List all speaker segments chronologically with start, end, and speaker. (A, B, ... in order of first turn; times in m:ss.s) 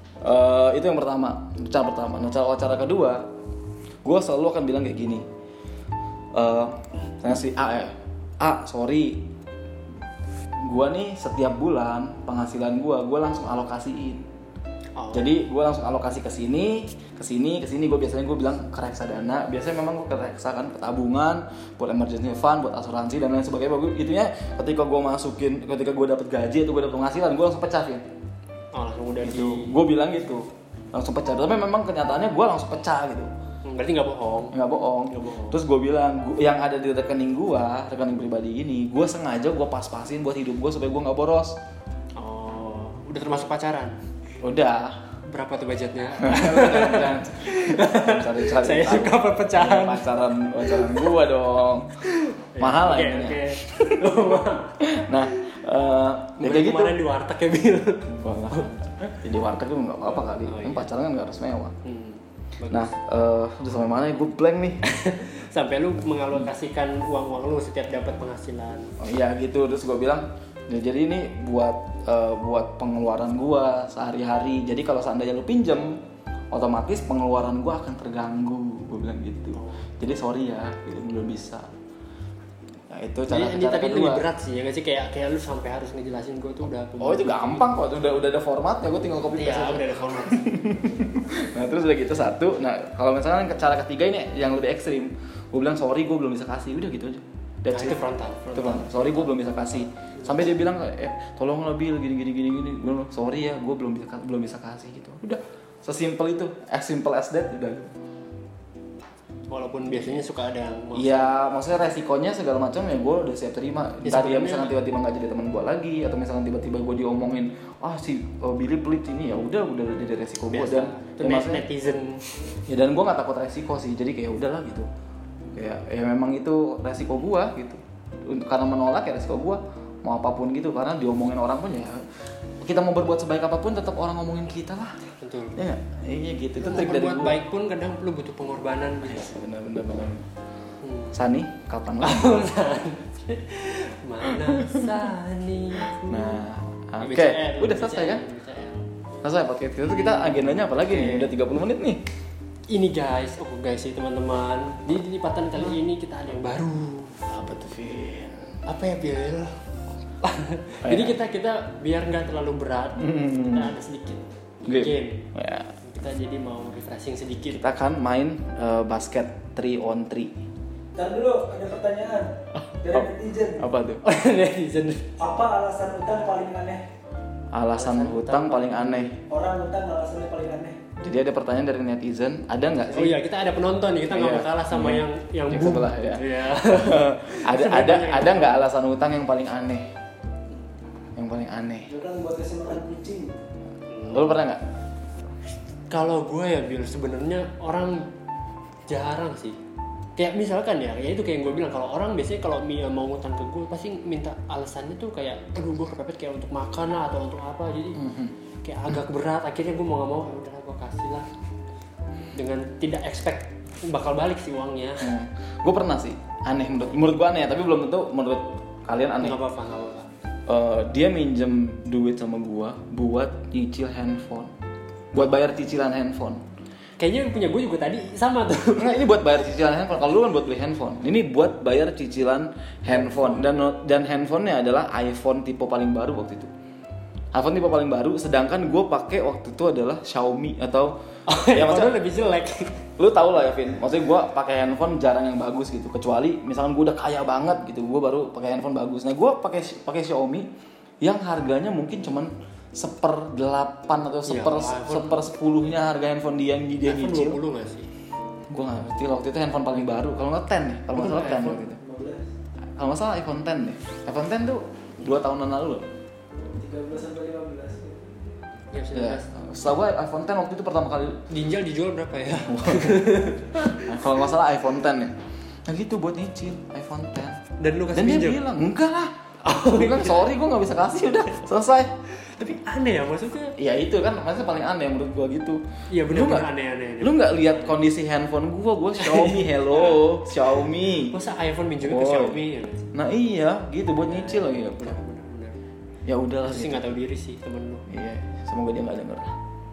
0:00.2-0:03.2 A
0:04.0-0:05.2 A
0:06.3-0:09.2 A
0:10.6-0:14.2 A
0:15.0-0:15.3 B
0:15.1-0:28.0 A
0:28.7-0:29.7 B
0:29.2-0:33.3 A
0:33.6-0:34.5 B
0:34.5-0:41.6 A
0:35.1-0:35.6 B
0:42.2-0:43.9 B
0:44.4-0:45.0 A
0:45.2-0:50.0 B
0:46.2-0:51.9 A
0:50.7-0:50.9 B
0:52.1-0:54.8 B
0:52.6-0:54.0 A
0:54.8-0:57.0 A
0:56.4-0:58.6 B
0:58.1-1:01.7 A
1:00.4-1:00.9 B
1:01.8-1:02.9 B
1:02.7-1:04.8 A
1:04.8-1:08.9 B
1:09.0-1:16.0 A
1:16.5-1:21.7 A
1:22.9-1:24.2 A
1:23.3-1:27.6 B
1:27.0-1:38.0 A
1:29.3-1:30.6 B
1:37.7-1:39.5 B
1:38.5-1:47.9 A
1:49.5-1:51.3 B
1:49.9-1:50.2 A
1:50.9-2:01.6 A
1:54.0-1:54.7 B
2:00.5-2:02.4 B
2:02.7-2:04.9 A
2:05.5-2:12.0 A
2:12.6-2:15.0 A
2:15.2-2:15.6 B
2:15.6-2:17.4 A
2:16.6-2:19.3 B
2:19.0-2:20.3 A
2:20.8-2:21.1 B
2:21.1-2:22.5 A
2:22.0-2:26.4 B
2:24.3-2:24.9 A
2:26.0-2:28.2 A
2:27.0-2:28.8 B
2:29.2-2:32.0 A
2:30.0-2:31.3 B
2:32.7-2:37.2 B
2:37.3-2:38.6 A
2:38.6-2:39.6 B
2:40.2-2:45.3 B
2:40.8-2:41.1 A
2:43.0-2:43.7 A
2:44.6-2:45.7 A
2:45.8-2:47.6 B
2:47.5-2:50.4 A
2:50.9-2:53.6 C
2:53.6-2:54.0 A
2:54.0-2:55.1 B
2:55.2-2:56.8 C
2:57.5-2:59.2 A
2:57.8-2:59.1 B
2:59.3-3:00.8 C
3:01.0-3:03.2 A
3:02.9-3:08.6 B
3:04.1-3:09.9 A
3:11.2-3:11.9 A
3:11.9-3:13.3 C
3:14.1-3:14.6 A
3:15.9-3:18.1 B
3:18.9-3:19.6 B
3:20.2-3:28.0 B
3:28.0-3:28.3 A
3:28.6-3:31.3 B
3:32.3-3:35.1 B
3:35.0-3:39.4 A
3:39.2-3:40.1 B
3:40.5-3:44.5 A
3:45.1-3:46.4 A
3:47.0-3:48.9 B
3:48.8-3:56.5 A
3:52.9-3:53.4 B
3:57.3-4:01.0 A
4:01.3-4:02.8 B
4:01.5-4:02.0 A
4:03.0-4:10.5 A
4:11.0-4:17.4 A
4:14.3-4:15.2 B
4:16.8-4:17.9 B
4:18.5-4:21.8 A
4:20.9-4:21.6 B
4:21.8-4:22.3 C
4:22.8-4:25.8 A
4:26.6-4:28.1 C
4:28.7-4:29.3 B
4:28.9-4:31.2 A
4:31.3-4:33.7 B
4:32.5-4:37.4 A
4:37.6-4:38.4 B
4:37.9-4:41.9 A
4:39.4-4:40.2 B
4:42.2-4:43.6 B
4:43.6-4:46.5 A
4:45.9-4:47.4 B
4:47.0-4:51.1 A
4:51.1-4:52.9 B
4:51.8-4:52.4 A
4:52.9-4:55.0 A
4:54.1-4:55.6 B
4:56.0-4:56.8 A
4:56.4-4:57.9 B
4:57.9-4:59.3 A